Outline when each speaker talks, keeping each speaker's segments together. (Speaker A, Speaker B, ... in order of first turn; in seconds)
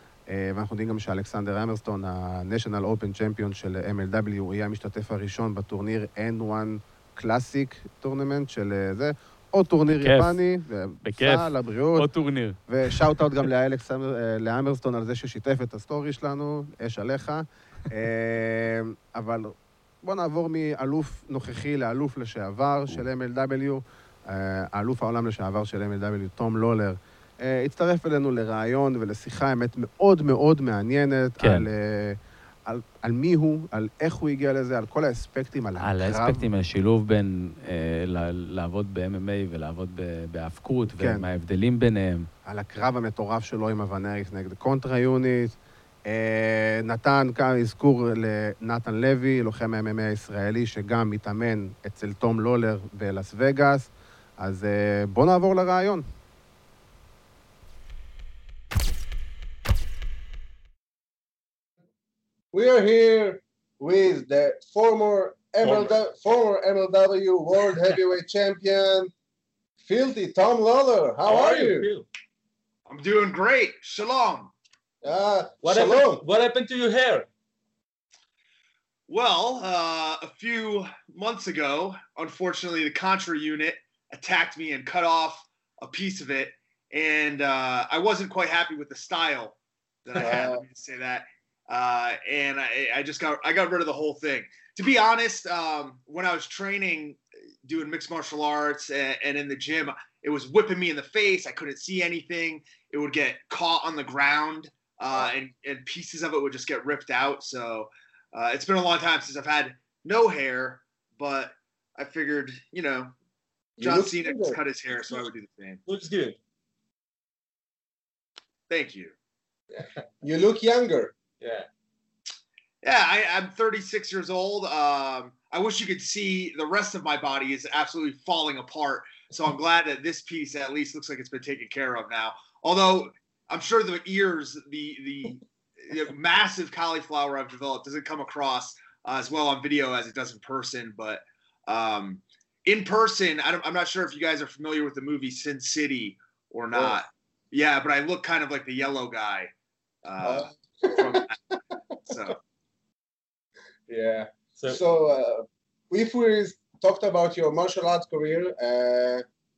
Speaker A: 0.3-12.1, 12.7-36.5, 40.9-41.3, 42.5-56.0
Speaker B: 9.9-10.4, 11.0-12.9, 31.4-31.7, 35.8-42.3
Speaker C: 62.5-69.1, 69.8-71.9, 75.0-76.2, 90.2-90.6, 113.8-114.6, 119.7-121.2, 146.7-147.0, 150.2-151.3, 153.9-159.2
Speaker D: 65.6-66.0, 71.2-72.1, 75.6-77.3, 115.9-116.4, 121.4-121.7
Speaker E: 72.9-74.5, 79.1-113.1, 113.8-115.8, 118.7-119.1, 122.8-149.5, 150.0-151.4, 152.1-152.4